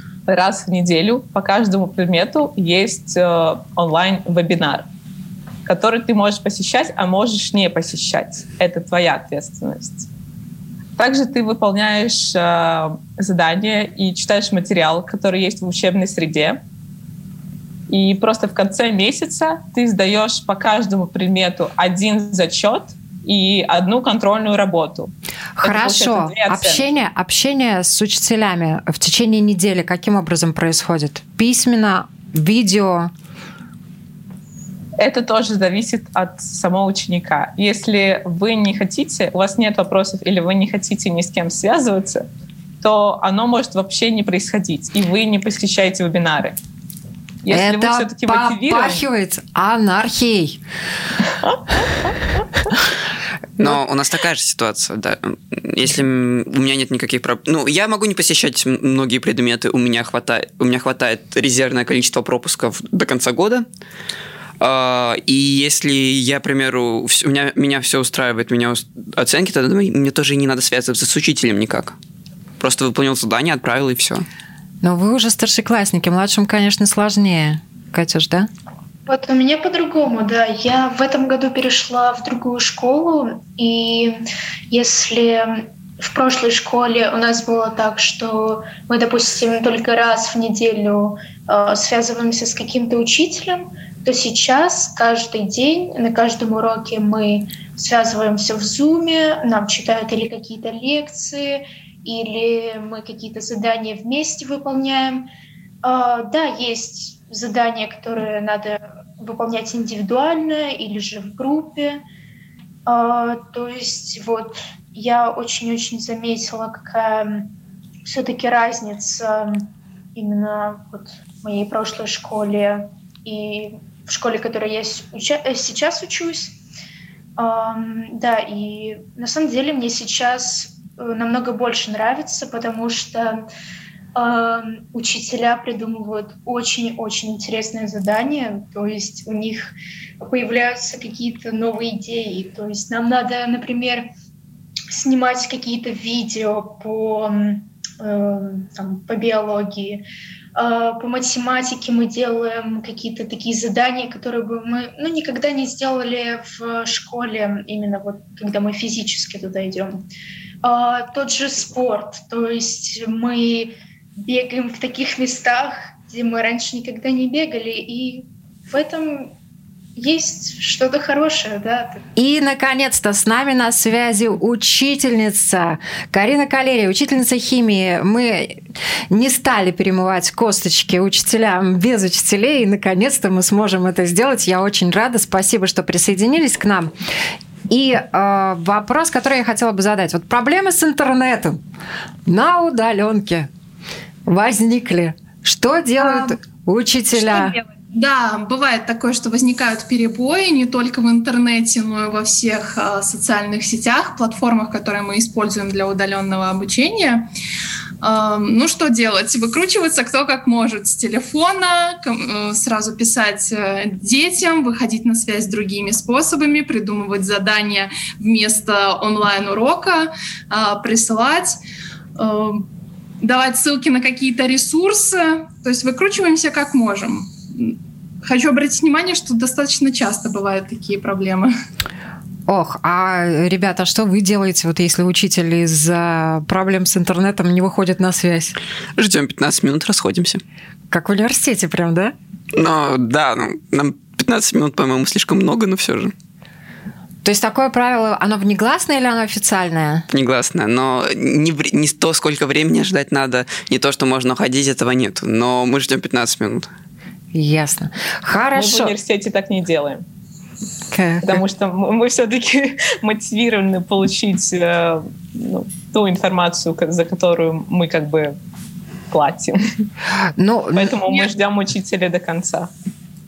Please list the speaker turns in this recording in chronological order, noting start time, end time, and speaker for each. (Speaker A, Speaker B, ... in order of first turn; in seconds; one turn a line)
Speaker A: 0.3-4.9
Speaker A: 5.6-10.1
Speaker A: 11.0-16.6
Speaker A: 17.9-26.9
Speaker B: 25.6-33.1
Speaker A: 35.0-42.2
Speaker A: 42.8-46.6
Speaker A: 47.4-49.0
Speaker B: 47.5-50.6
Speaker A: 51.4-52.4
Speaker C: 53.6-63.6
Speaker C: 64.6-72.0
Speaker C: 72.6-74.2
Speaker B: 74.8-78.5
Speaker D: 79.1-105.3
Speaker D: 105.8-112.0
Speaker D: 112.8-117.5
Speaker D: 118.0-126.5
Speaker D: 127.4-133.4
Speaker D: 134.1-144.1
Speaker D: 144.9-160.0
Speaker D: 160.6-169.3
Speaker D: 169.9-172.0
Speaker B: 172.2-178.6
Speaker B: 179.1-186.9
Speaker B: 187.7-191.6
Speaker B: 192.2-193.5
Speaker B: 194.3-197.6
Speaker E: 196.0-196.3
Speaker E: 197.1-207.3
Speaker E: 208.0-221.6
Speaker E: 222.2-222.7
Speaker E: 223.2-231.5
Speaker B: 232.5-238.6
Speaker C: 239.0-240.4
Speaker B: 240.9-242.1
Speaker C: 242.5-246.1
Speaker B: 247.2-250.1
Speaker C: 250.1-256.7
Speaker B: 257.3-258.9
Speaker A: 258.5-260.0
Speaker B: 260.9-261.4
Speaker A: 261.2-268.4
Speaker A: 269.1-269.6
Speaker B: 270.4-271.0
Speaker A: 270.7-272.7